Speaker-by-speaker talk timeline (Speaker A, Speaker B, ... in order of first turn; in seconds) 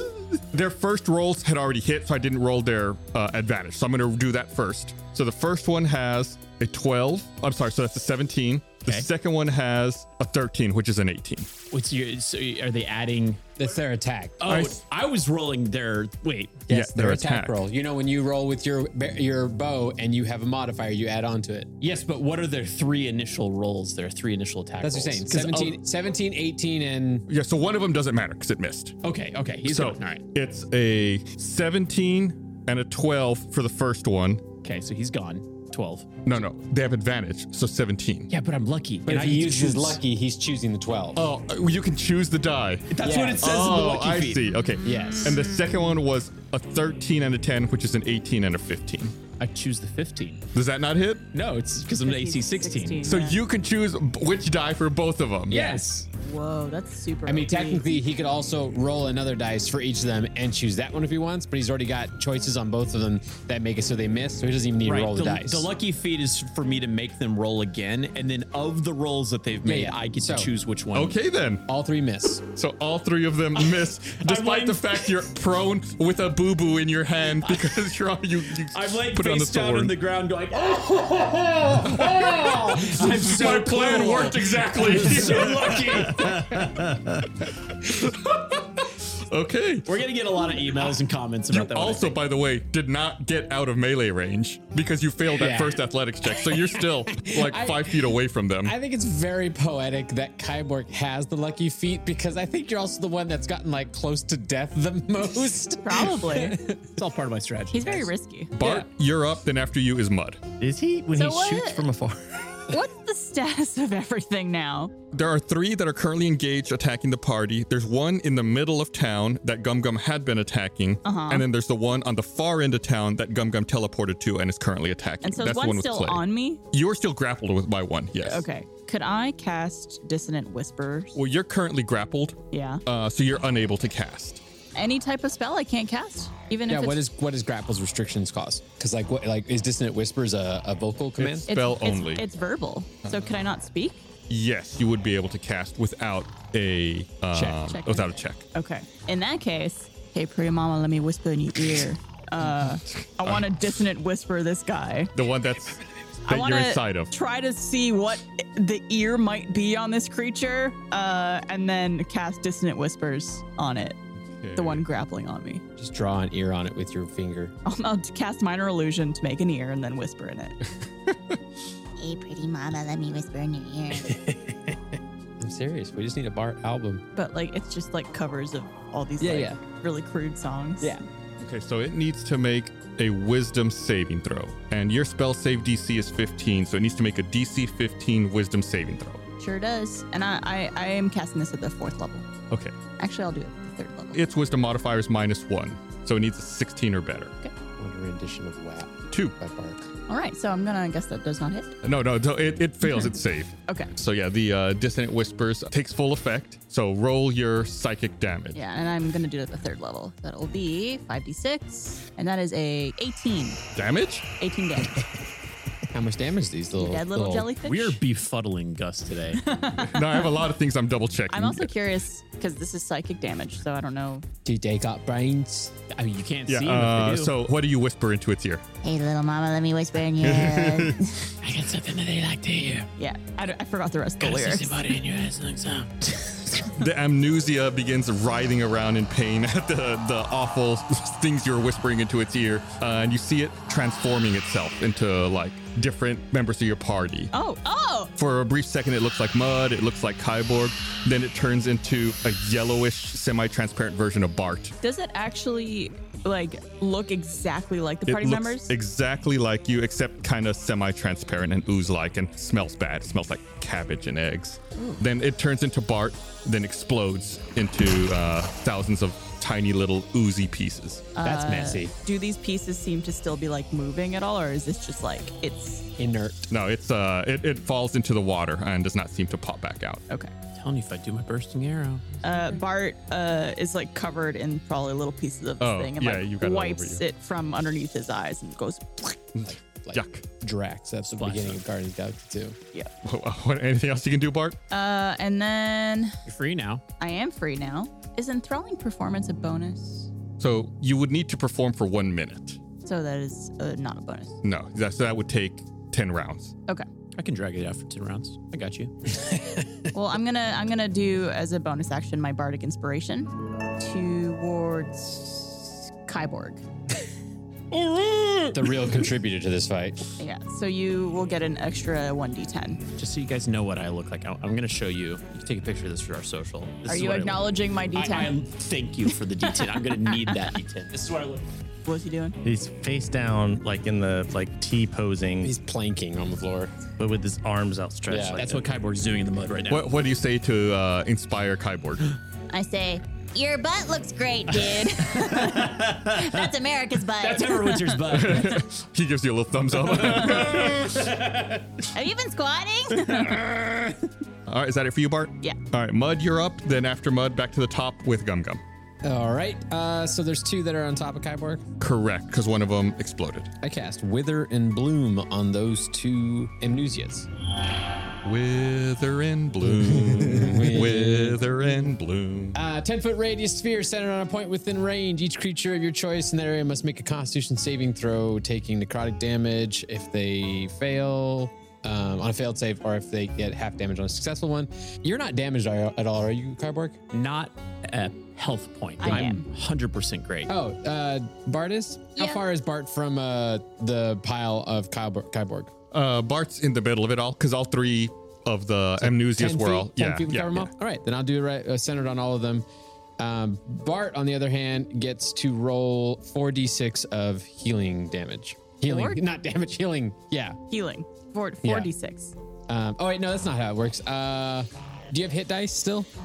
Speaker A: 0.5-11.5, 14.5-14.8, 16.7-17.6, 27.3-28.9, 29.7-34.5, 36.2-38.3, 41.1-49.1, 50.5-51.2, 53.0-55.6, 70.9-71.6, 72.4-79.9, 81.9-86.9, 87.4-89.9, 91.5-98.7, 108.5-110.4, 115.1-128.4, 131.1-134.4, 141.2-142.2, 144.3-148.4, 155.1-157.1, 164.2-164.8, 181.4-189.2, 192.5-192.7, 194.1-197.3, 201.8-208.6, 213.7-214.3, 219.8-221.7, 226.5-228.6, 230.2-231.3, 236.7-247.3, 248.2-254.7, 258.1-271.1, 276.5-280.0, 285.6-287.0, 289.3-290.2, 293.0-294.6, 300.4-302.6, 304.4-306.5, 339.7-342.0, 348.1-351.1, 353.1-353.5, 354.5-358.6, 361.8-363.5, 368.2-372.6, 395.9-400.7
Speaker B: 11.7-13.4, 14.4-16.6, 21.8-25.8, 29.0-30.2, 34.6-36.3, 38.3-40.0, 42.9-44.4, 49.4-50.4, 51.3-53.1, 55.5-56.1, 64.8-71.2, 73.7-75.1, 78.7-86.7, 89.8-92.2, 106.9-108.1, 217.6-219.4, 225.9-227.3, 231.4-232.9, 234.2-236.7, 280.5-282.6, 291.1-291.6, 296.2-296.8, 307.1-308.9, 323.0-331.5, 338.4-339.9, 344.5-346.4, 347.1-348.6, 349.8-351.6, 387.1-390.5
Speaker C: 13.6-14.4, 16.7-21.7, 24.8-27.3, 39.0-41.2, 43.0-43.6, 44.8-45.4, 55.5-55.8, 57.2-65.7, 69.6-70.5, 71.7-72.4, 83.7-84.0, 95.4-95.8, 97.1-98.1, 98.6-106.8, 136.7-141.5, 147.3-147.6, 165.8-167.5, 174.0-177.0, 179.2-179.6, 197.8-199.8, 215.9-217.5, 224.4-225.8, 271.2-271.9, 276.0-276.4, 289.4-292.6, 309.1-309.8, 318.5-320.0, 335.4-336.7, 338.1-338.4, 359.0-361.6, 363.6-367.3, 369.6-371.4, 372.5-387.0, 390.5-395.7, 399.0-402.6, 403.2-410.6, 411.6-411.9, 412.7-416.1
Speaker D: 52.0-53.4, 56.2-58.0, 105.8-106.6, 107.7-108.5, 111.1-111.8, 112.7-114.9, 121.0-121.5, 125.2-126.6, 128.2-131.2, 132.5-132.8, 134.7-137.0, 141.5-144.0, 147.6-155.1, 156.3-164.0, 164.6-165.6, 167.6-170.6, 177.1-181.0, 189.4-192.2, 193.0-194.2, 200.1-201.7, 202.8-203.1, 208.5-213.6, 214.4-215.1, 216.8-218.0, 219.4-220.3, 221.3-224.2, 233.0-234.9, 247.3-248.1, 254.8-258.7, 271.1-275.9, 282.2-289.2, 294.7-296.2, 297.0-300.1, 302.8-304.4, 309.9-316.6, 320.2-322.8, 326.9-328.3, 329.5-330.3, 331.9-332.4, 342.5-345.7, 351.9-353.3, 389.0-389.4, 408.9-409.2, 410.7-412.3
Speaker E: 110.6-112.7, 332.4-335.5, 337.0-338.6
Speaker F: 172.0-174.0, 228.8-230.9, 342.5-347.6